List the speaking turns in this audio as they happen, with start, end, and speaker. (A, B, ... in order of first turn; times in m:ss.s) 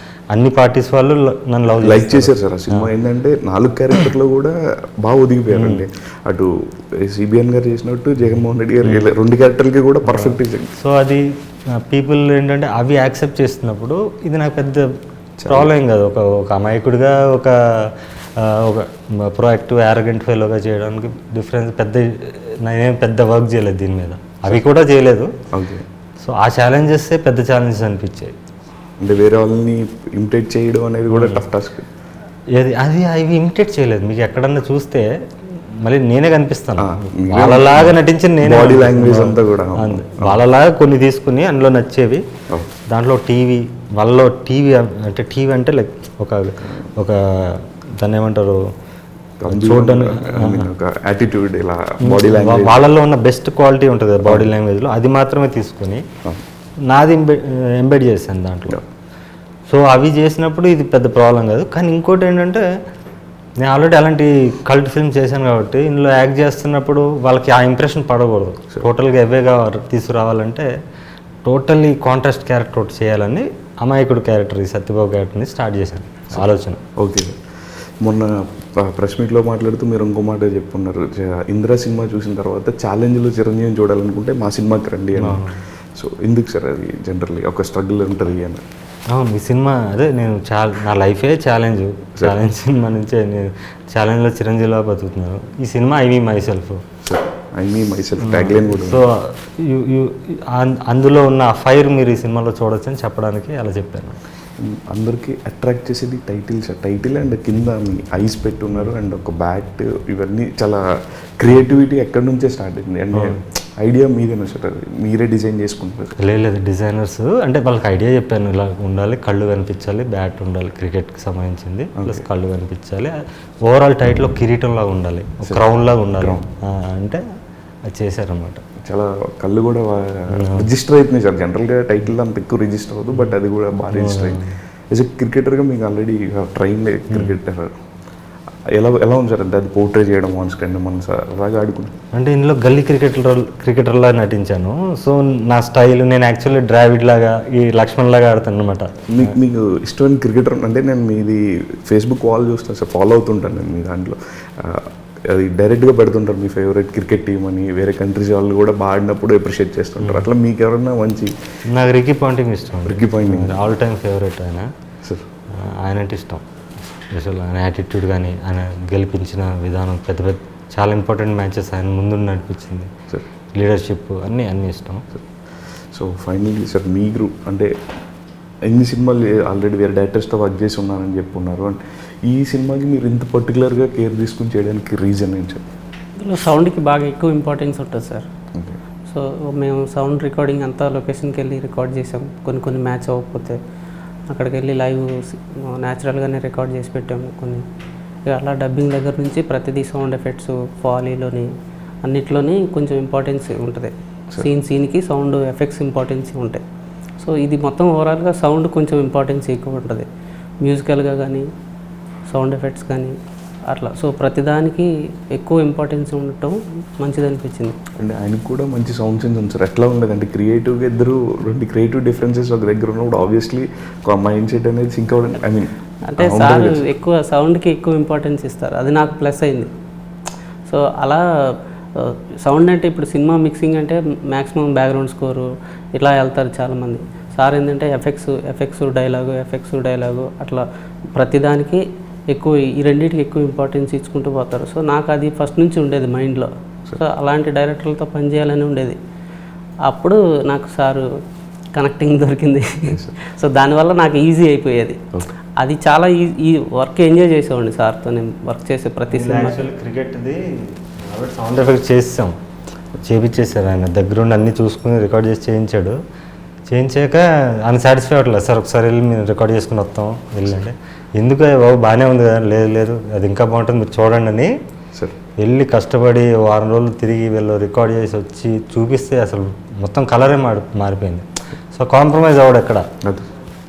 0:00.3-0:02.9 A
0:01.8-0:10.8 B
0:05.5-0:05.8 A
0:10.2-0:14.9 A
0:15.4-0:15.7 B
0:15.5-0:25.3 A
0:25.5-0:25.8 B
0:26.2-0:28.4 A
0:29.0-0:31.9 B
0:31.1-0:31.4 A
0:32.5-0:42.2 A
0:36.8-0:40.4 B
0:42.9-0:48.6 A
0:49.4-0:52.9 B
0:49.5-0:50.7 A
0:52.0-0:56.0 A
0:56.8-0:58.8 A
0:59.7-1:02.6 A
1:03.6-1:10.7 A
1:11.4-1:16.8 A
1:17.0-1:17.4 B
1:18.0-1:28.6 B
1:25.2-1:25.6 A
1:29.1-1:36.8 A
1:37.0-1:39.0 B
1:38.2-1:44.2 A
1:44.6-1:50.8 B
1:51.4-1:56.2 B
1:53.1-1:53.4 A
1:56.2-2:07.2 A
2:02.0-2:02.2 B
2:06.2-2:06.5 B
2:07.9-2:08.6 A
2:08.8-2:17.7 B
2:10.3-2:10.7 A
2:13.9-2:14.5 A
2:18.7-2:21.9 B
2:22.1-2:29.3 A
2:29.1-2:41.3 B
2:40.0-2:40.3 A
2:41.7-2:44.7 A
2:42.8-2:43.7 B
2:45.5-2:46.4 A
2:47.1-2:52.9 A
2:53.6-2:55.1 A
2:55.9-2:57.7 B
2:58.7-3:05.6 B
3:06.2-3:08.3 C
3:09.1-3:13.6 C
3:14.3-3:17.7 C
3:18.3-3:21.5 C
3:22.0-3:26.6 C
3:27.2-3:30.1 C
3:30.6-3:31.5 C
3:32.3-3:37.8 C
3:38.0-3:46.9 B
3:46.1-3:49.7 C
3:50.7-4:09.0 C
4:09.9-4:11.1 C
4:11.7-4:15.0 C
4:12.9-4:13.2 B
4:15.6-4:19.6 C
4:19.1-4:22.4 A
4:23.0-4:26.0 A
4:26.7-4:34.5 A
4:35.4-4:42.9 A